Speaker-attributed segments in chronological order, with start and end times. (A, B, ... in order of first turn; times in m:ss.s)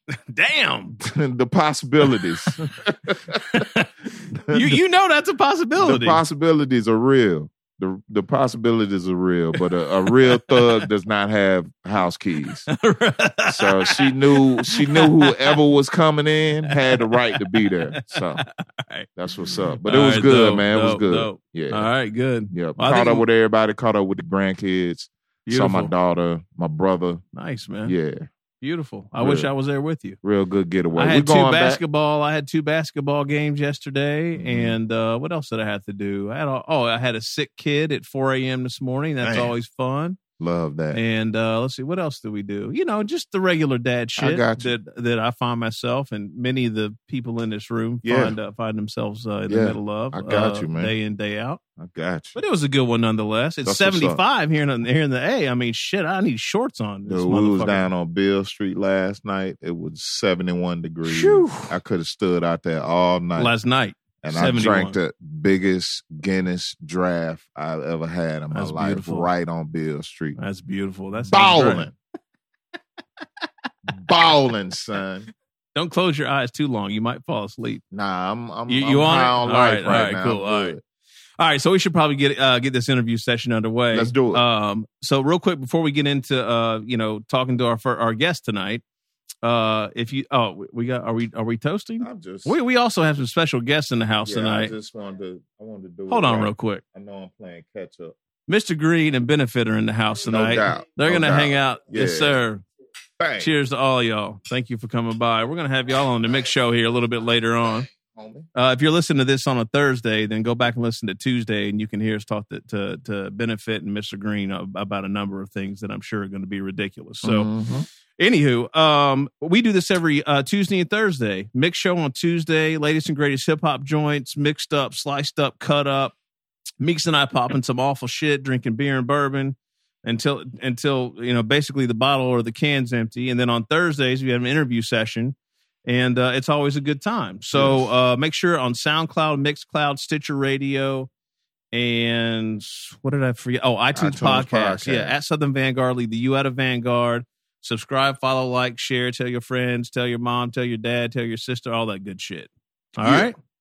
0:00.3-0:01.0 A
0:01.0-0:03.4 B
0:02.1-0:02.5 A
0:03.5-0:03.9 A
0:04.5-0:04.8 B
0:04.5-0:06.2 A
0:05.8-0:12.7 B
0:10.1-0:10.8 A
0:12.7-0:15.6 A
0:13.5-0:18.4 B
0:16.7-0:19.1 A
0:19.2-0:21.9 B
0:19.8-0:23.2 A
0:22.5-0:27.2 B
0:25.4-0:25.9 A
0:27.3-0:27.9 A
0:27.8-0:28.3 B
0:28.6-0:30.2 A
0:29.2-0:29.5 B
0:30.2-0:31.8 B
0:30.9-0:40.2 A
0:34.4-0:34.8 B
0:39.2-0:39.5 B
0:40.4-0:41.0 B
0:40.9-0:51.6 A
0:44.2-0:44.7 B
0:48.0-0:48.4 B
0:49.5-0:50.9 B
0:51.8-0:52.4 B
0:52.3-0:57.9 A
0:53.6-0:54.2 B
0:57.1-1:03.5 B
1:01.0-1:01.8 A
1:03.4-1:05.0 A
1:04.2-1:10.4 B
1:08.5-1:09.3 A
1:10.4-1:11.9 A
1:11.3-1:11.9 B
1:13.9-1:15.3 B
1:15.8-1:17.8 A
1:17.9-1:20.8 B
1:18.7-1:20.8 A
1:21.4-1:28.8 A
1:23.9-1:24.4 B
1:29.4-1:34.7 A
1:32.0-1:32.6 B
1:34.2-1:38.1 B
1:36.1-1:36.8 A
1:38.5-1:42.6 A
1:40.2-1:42.4 B
1:43.2-1:43.5 B
1:43.4-1:47.9 A
1:47.9-1:48.5 B
1:48.6-1:57.5 A
1:57.2-1:57.9 B
1:58.2-2:06.1 A
2:06.8-2:15.3 A
2:15.9-2:21.1 A
2:17.5-2:17.9 B
2:21.7-2:33.4 A
2:23.9-2:25.1 B
2:33.0-2:33.3 B